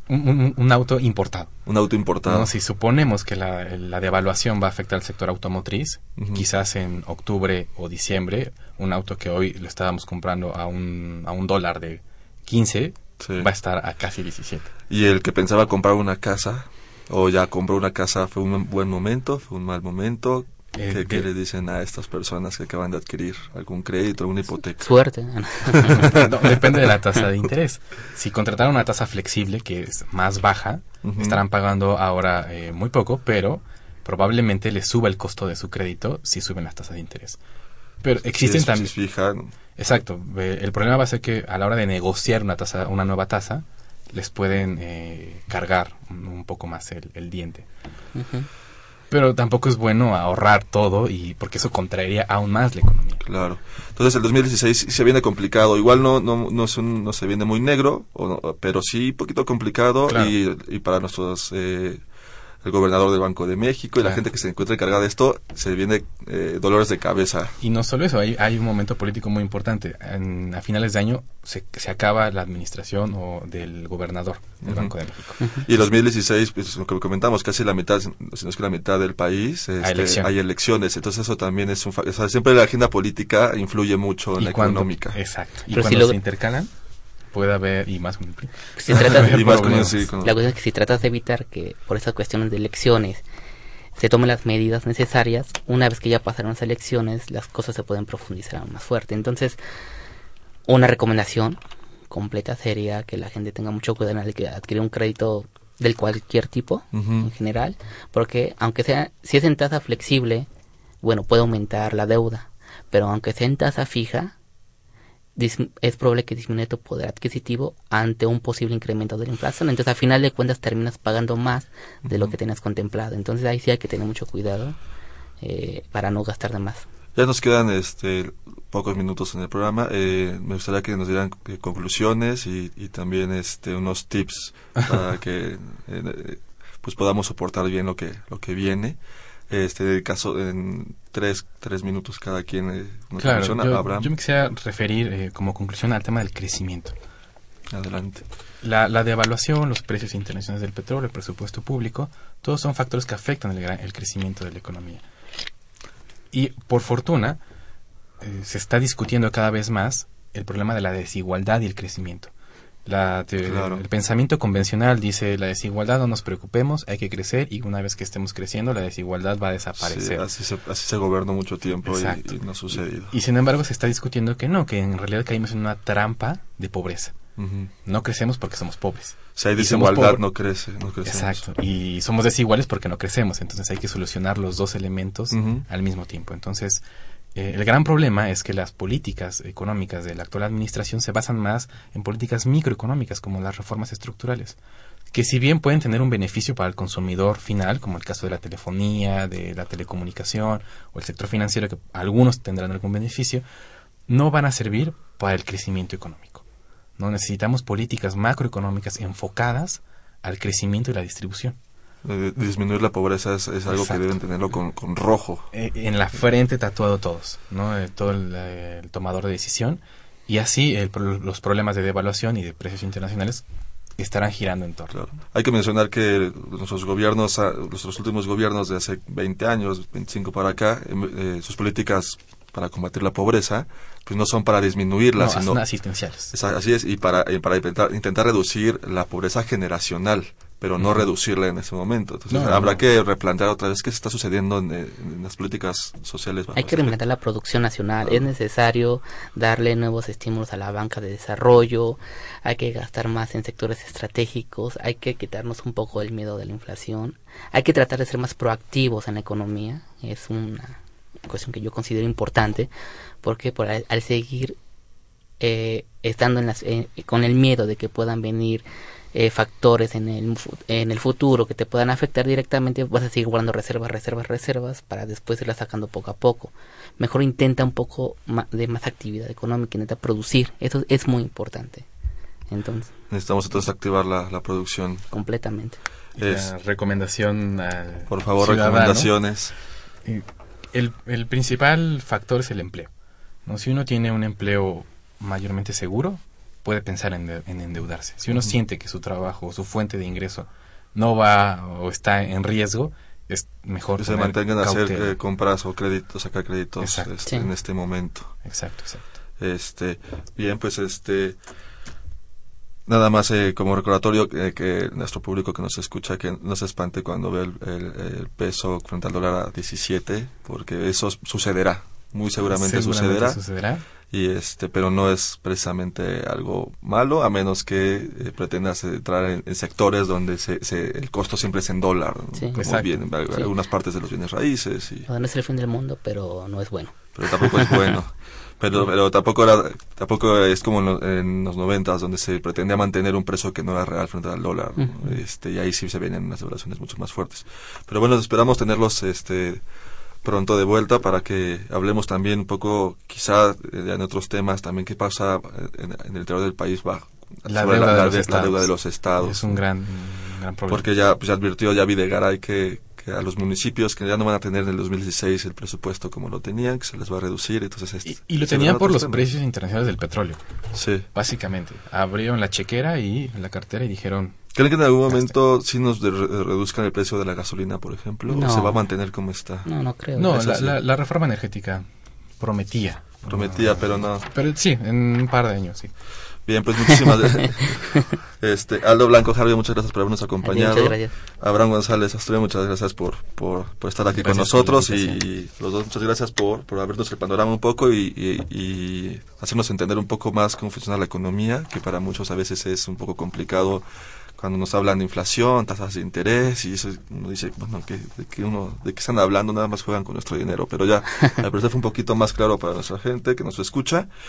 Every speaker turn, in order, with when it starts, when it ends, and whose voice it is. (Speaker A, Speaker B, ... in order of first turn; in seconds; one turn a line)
Speaker A: 0.1-1.5
Speaker B: 1.7-2.5
Speaker A: 2.2-14.7
Speaker B: 6.2-6.5
Speaker B: 13.2-13.5
Speaker B: 14.9-24.9
Speaker A: 20.8-21.3
Speaker C: 24.8-26.2
Speaker B: 25.7-26.7
Speaker A: 26.0-37.4
Speaker B: 31.0-31.4
Speaker A: 38.0-38.9
Speaker B: 38.3-39.5
Speaker A: 39.8-47.7
Speaker C: 48.1-48.5
Speaker A: 49.1-53.2
Speaker B: 53.2-62.0
Speaker A: 60.1-60.4
Speaker B: 62.6-67.5
Speaker A: 67.6-75.4
Speaker B: 74.6-74.9
Speaker B: 75.6-85.2
Speaker A: 79.8-80.3
Speaker A: 84.4-86.7
Speaker C: 85.7-86.2
Speaker A: 87.3-90.1
Speaker C: 88.8-89.6
Speaker B: 89.0-90.3
Speaker C: 90.2-93.2
Speaker C: 94.0-99.6
Speaker C: 100.7-101.6
Speaker C: 102.1-110.5
Speaker B: 106.9-107.3
Speaker C: 111.0-114.3
Speaker C: 115.4-124.8
Speaker B: 122.1-122.3
Speaker C: 125.4-126.8
Speaker B: 127.2-139.0
Speaker B: 139.5-144.1
Speaker A: 143.2-146.9
Speaker B: 147.7-148.2
Speaker A: 148.6-155.0
Speaker A: 156.3-157.4
Speaker A: 158.2-162.3
Speaker A: 162.9-170.3
Speaker B: 163.4-163.8
Speaker B: 169.8-173.1
Speaker A: 171.8-177.2
Speaker B: 177.4-177.7
Speaker A: 177.8-180.2
Speaker B: 179.4-181.5
Speaker A: 181.0-186.8
Speaker B: 185.3-185.6
Speaker A: 187.3-194.6
Speaker A: 195.1-203.4
Speaker A: 204.1-206.4
Speaker A: 207.0-211.6
Speaker B: 212.1-215.5
Speaker A: 213.7-214.2
Speaker A: 215.5-223.4
Speaker A: 224.0-224.9
Speaker B: 224.9-235.6
Speaker A: 235.2-236.3
Speaker B: 236.3-247.0
Speaker A: 240.8-241.1
Speaker A: 242.3-242.8
Speaker C: 246.6-262.7
Speaker C: 263.2-264.6
Speaker C: 265.4-281.9
Speaker C: 282.5-282.9
Speaker B: 283.1-285.1
Speaker C: 285.1-285.8
Speaker B: 286.2-286.5
Speaker A: 286.2-289.1
Speaker B: 288.1-289.5
Speaker A: 290.1-292.9
Speaker A: 293.5-305.1
Speaker B: 304.0-308.3
Speaker A: 306.8-307.1
Speaker A: 308.4-309.1
Speaker B: 309.4-311.4
Speaker B: 312.9-323.4
Speaker A: 322.5-323.8
Speaker B: 324.1-335.1
Speaker C: 332.4-332.6
Speaker A: 332.6-333.1
Speaker C: 335.1-337.9
Speaker B: 337.2-349.6
Speaker C: 344.8-345.1
Speaker B: 350.2-359.6
Speaker A: 357.5-360.9
Speaker B: 360.7-369.3
Speaker A: 368.1-370.4
Speaker B: 370.8-371.1
Speaker A: 371.1-374.4
Speaker B: 374.5-380.8
Speaker A: 375.1-375.3
Speaker C: 378.3-378.8
Speaker C: 379.6-380.3
Speaker A: 380.1-381.9
Speaker A: 382.4-385.9
Speaker B: 383.3-384.3
Speaker B: 386.5-403.8
Speaker C: 390.4-391.1
Speaker A: 394.1-395.2
Speaker B: 404.4-414.1